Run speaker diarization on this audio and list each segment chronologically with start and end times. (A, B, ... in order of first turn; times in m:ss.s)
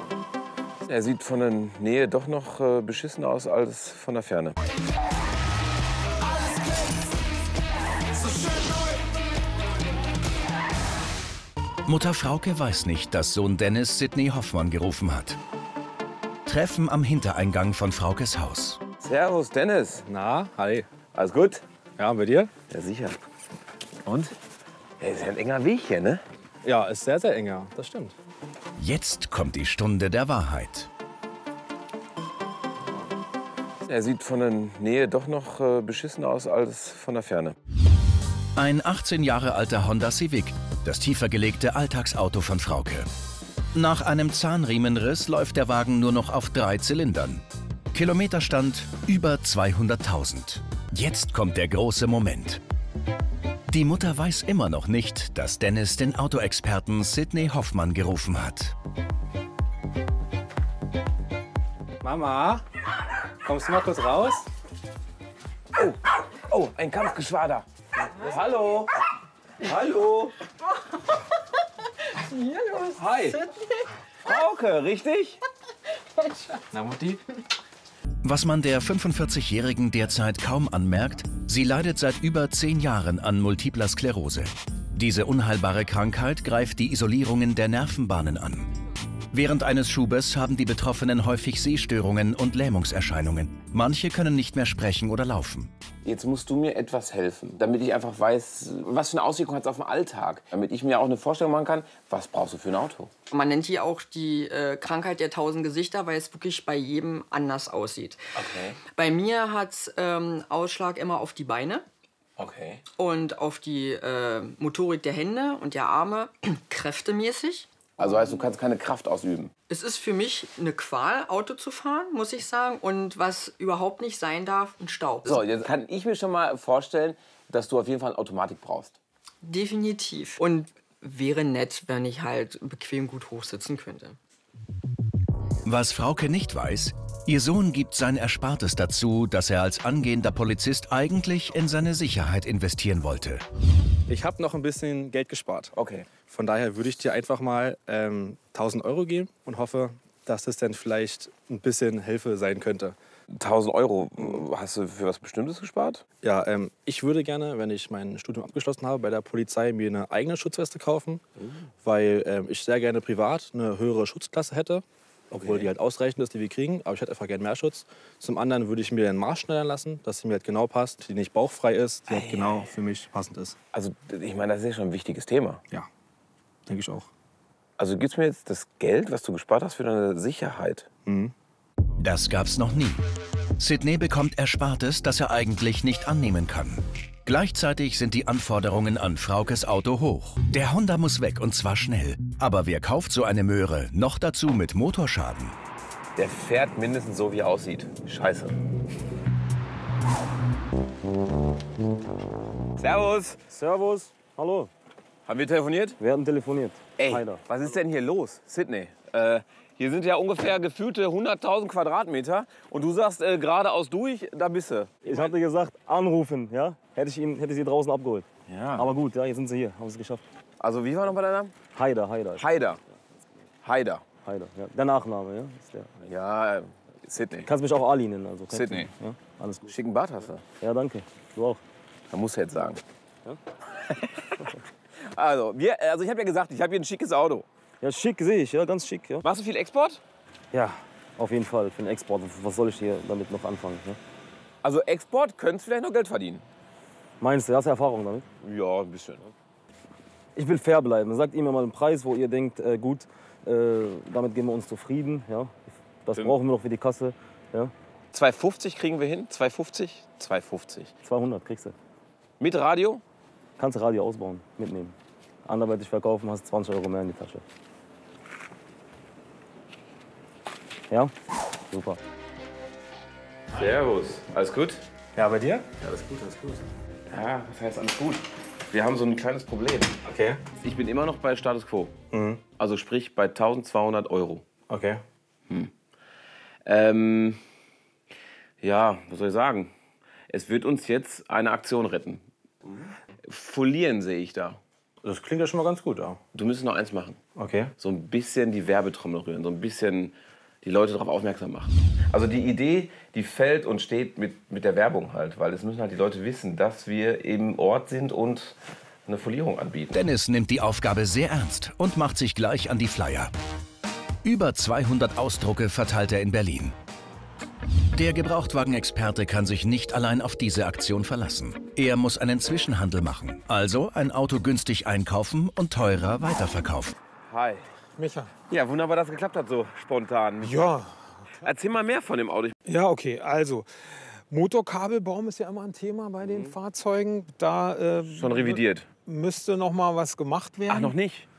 0:00.9-0:04.6 A
0:11.8-0:15.4 B
0:16.4-0:18.8 B
0:19.0-0:20.0 A
0:20.0-0:20.9 C
0:21.1-0:21.6 A
0:22.0-0:22.5 C
0:22.7-0:23.2 A
0:24.0-0:24.3 A
0:25.0-0:26.2 A
0:26.6-0:28.1 C
0:28.8-0:30.9 B
0:33.8-0:37.5 A
0:38.6-0:43.1 B
0:43.7-0:52.6 B
0:53.7-0:58.7 B
1:02.0-1:02.6 C
1:03.4-1:04.4 C
1:06.5-1:07.6 A
1:08.6-1:08.8 C
1:09.6-1:10.3 A
1:12.1-1:13.6 D
1:13.0-1:13.4 C
1:14.2-1:15.4 A
1:16.2-1:16.6 D
1:18.2-1:28.7 B
1:29.3-1:35.7 B
1:36.0-1:43.1 A
1:43.3-1:48.2 D
1:48.4-1:48.8 A
1:48.9-1:51.8 D
1:52.4-1:52.8 A
1:53.0-1:57.8 D
1:58.0-1:59.5 A
1:59.7-2:05.4 D
2:05.3-2:09.0 A
2:09.4-2:14.2 D
2:15.6-2:23.4 B
2:24.1-2:25.7 C
2:25.7-2:26.1 A
2:26.2-2:33.0 C
2:33.3-2:36.0 A
2:36.2-2:41.2 C
2:41.4-2:41.6 A
2:41.8-2:53.6 C
2:45.3-2:45.7 A
2:52.1-2:52.7 A
2:53.7-2:55.6 A
2:56.7-2:57.1 C
2:57.8-3:00.9 A
3:01.0-3:01.3 C
3:02.0-3:03.0 B
3:03.6-3:15.5 B
3:16.2-3:18.6 A
3:22.8-3:23.4 A
3:23.5-3:24.7 E
3:25.2-3:26.0 A
3:26.0-3:27.4 E
3:27.0-3:35.3 A
3:35.0-3:40.2 E
3:38.5-3:38.9 A
3:40.6-3:41.5 A
3:41.7-3:42.4 E
3:42.4-3:42.8 A
3:43.6-3:44.0 A
3:44.2-3:46.0 E
3:46.0-3:47.5 A
3:47.4-3:49.7 E
3:48.5-3:48.9 A
3:49.7-3:50.4 A
3:50.6-3:51.6 E
3:52.1-3:52.8 A
3:53.8-3:54.4 A
3:55.0-3:57.4 A
3:57.8-3:59.2 E
3:59.2-4:00.0 A
4:00.5-4:04.0 E
4:04.6-4:06.4 A
4:07.2-4:08.2 E
4:08.4-4:09.2 A
4:10.4-4:17.7 E
4:18.1-4:20.9 A
4:21.0-4:21.7 E
4:22.4-4:23.0 A
4:23.6-4:27.4 E
4:31.7-4:32.0 E
4:33.5-4:34.8 A
4:35.2-4:36.6 C
4:37.1-4:39.9 A
4:40.1-4:40.4 C
4:40.6-4:41.9 A
4:42.1-4:42.4 C
4:42.6-4:44.4 A
4:44.7-4:45.0 C
4:46.6-4:47.4 A
4:48.6-4:49.7 A
4:50.3-4:54.6 A
4:55.0-4:56.2 C
4:56.3-4:57.2 A
4:57.4-4:57.7 C
4:57.8-5:10.0 A
5:09.9-5:13.3 B
5:14.2-5:16.7 B
5:17.9-5:26.9 B
5:27.3-5:27.6 A
5:28.0-5:28.3 F
5:28.5-5:30.7 A
5:30.4-5:30.9 F
5:31.4-5:32.5 A
5:32.6-5:40.9 F
5:36.2-5:36.5 A
5:38.1-5:38.9 A
5:40.7-5:41.3 A